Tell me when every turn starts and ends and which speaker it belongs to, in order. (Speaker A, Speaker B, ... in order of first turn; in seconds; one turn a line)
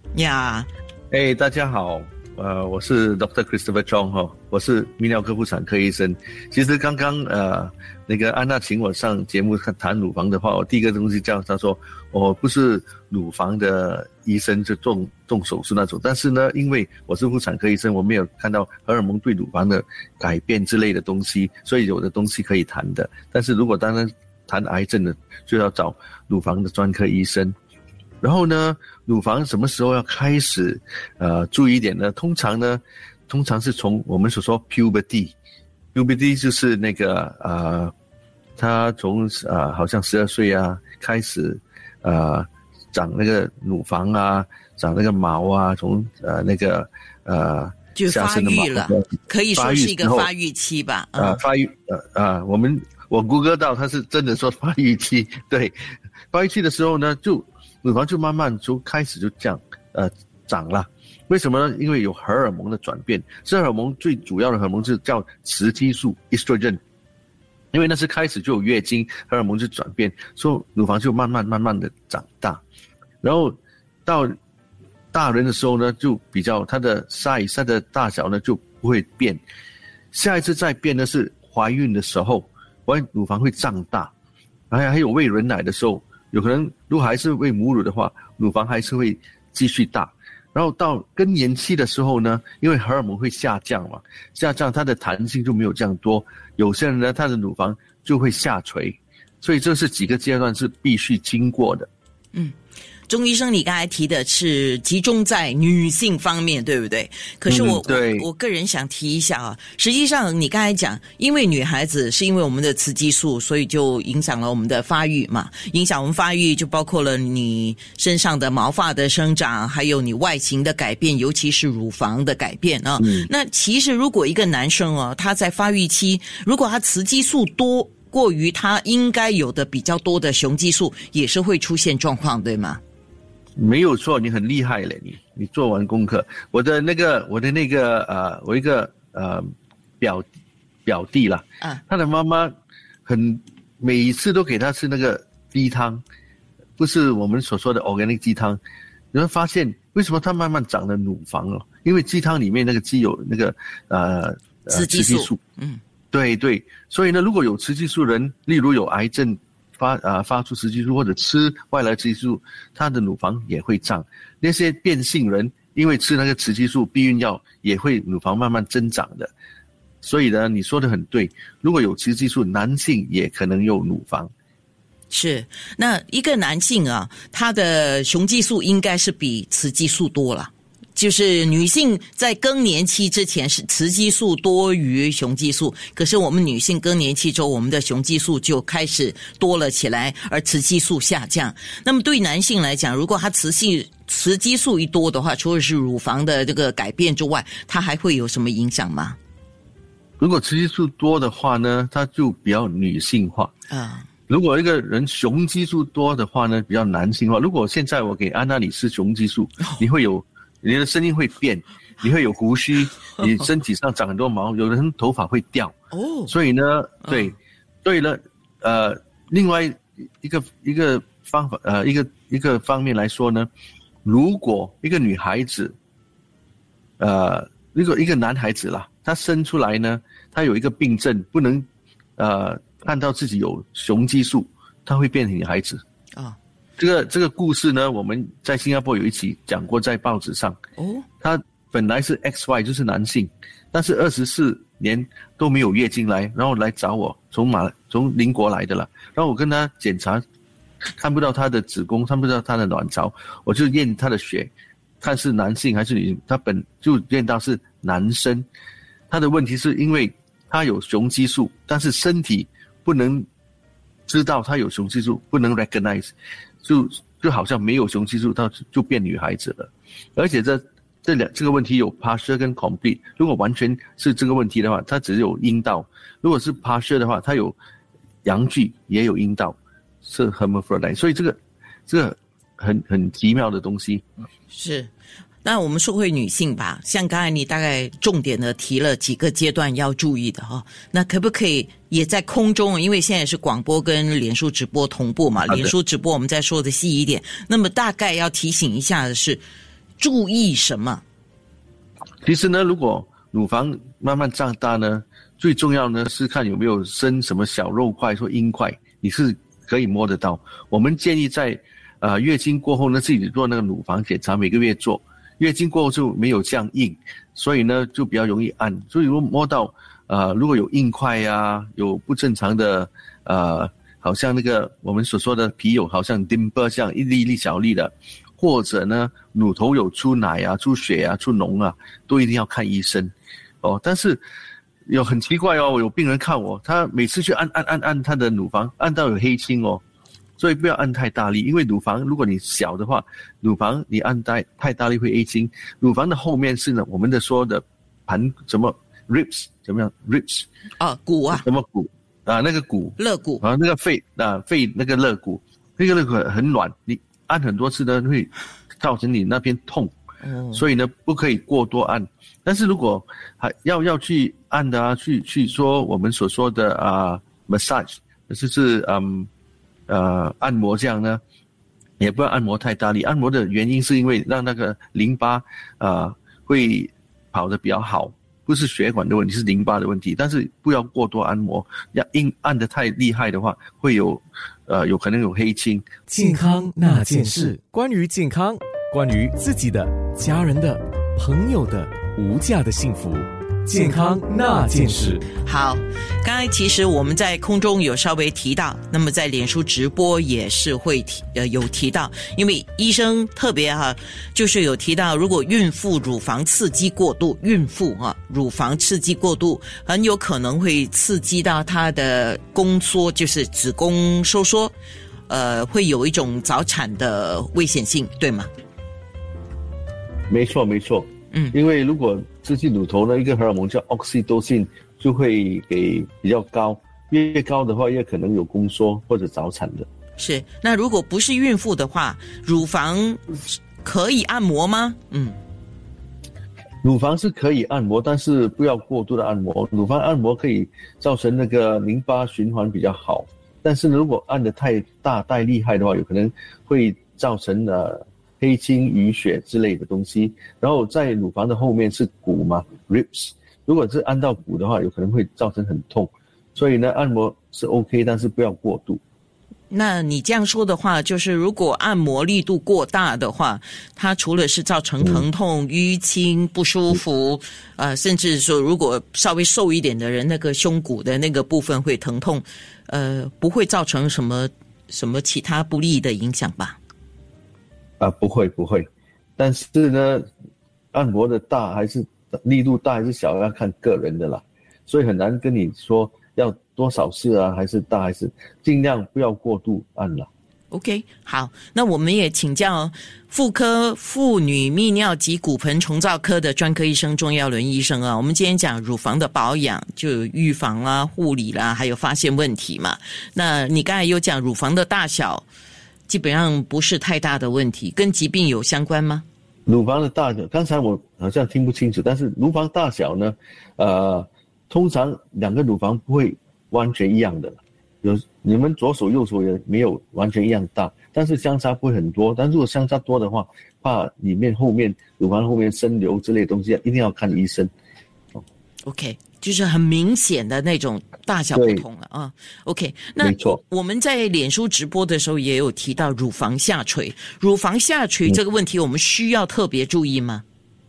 Speaker A: 0.1-0.7
Speaker B: 1.1-27.5
Speaker B: 28.2-35.4
Speaker B: 35.9-37.9
Speaker B: 38.6-50.3
Speaker A: 48.0-51.4
Speaker B: 51.2-55.8
Speaker B: 56.3-66.8
Speaker B: 67.7-72.6
Speaker B: 73.2-73.5
Speaker B: 74.1-74.3
Speaker B: 75.1-79.4
Speaker B: 80.1-84.1
Speaker B: 84.7-101.9
Speaker A: 103.1-132.8
Speaker B: 107.5-108.3
Speaker B: 123.0-123.3
Speaker B: 133.6-140.3
Speaker B: 140.8-142.5
Speaker B: 143.1-146.0
Speaker B: 146.8-148.6
Speaker B: 149.1-155.4
Speaker A: 154.7-155.8
Speaker B: 156.1-169.3
Speaker B: 170.0-174.3
Speaker A: 175.1-199.2
Speaker B: 200.2-203.5
Speaker A: 203.7-204.1
Speaker B: 204.3-215.7
Speaker A: 212.8-213.5
Speaker A: 215.9-216.3
Speaker B: 216.3-223.5
Speaker A: 217.0-217.3
Speaker B: 224.1-225.8
Speaker B: 227.0-231.7
Speaker B: 232.2-235.8
Speaker B: 236.8-240.6
Speaker A: 240.8-241.1
Speaker B: 241.2-250.2
Speaker B: 251.0-258.5
Speaker B: 259.1-263.3
Speaker B: 264.1-277.6
Speaker B: 278.2-284.0
Speaker A: 284.5-284.9
Speaker A: 285.4-299.4
Speaker B: 295.5-295.7
Speaker A: 300.0-301.0
Speaker B: 302.2-334.2
Speaker B: 334.9-339.8
Speaker B: 340.4-350.5
Speaker A: 350.8-351.4
Speaker B: 351.3-359.9
Speaker A: 353.0-353.4
Speaker A: 360.2-360.6
Speaker B: 360.5-369.3
Speaker B: 369.9-371.2
Speaker B: 372.0-385.9
Speaker C: 386.1-395.2
Speaker A: 395.4-414.7
Speaker A: 415.3-418.5
Speaker B: 420.3-429.9
Speaker A: 430.2-435.4
Speaker B: 436.8-459.0
Speaker A: 459.7-476.8
Speaker B: 465.0-465.3
Speaker B: 478.0-478.9
Speaker B: 479.4-480.2
Speaker B: 480.9-490.3
Speaker A: 490.7-505.5
Speaker A: 506.1-509.3
Speaker B: 509.7-527.7
Speaker A: 528.9-540.4
Speaker B: 531.5-531.9
Speaker B: 533.2-533.6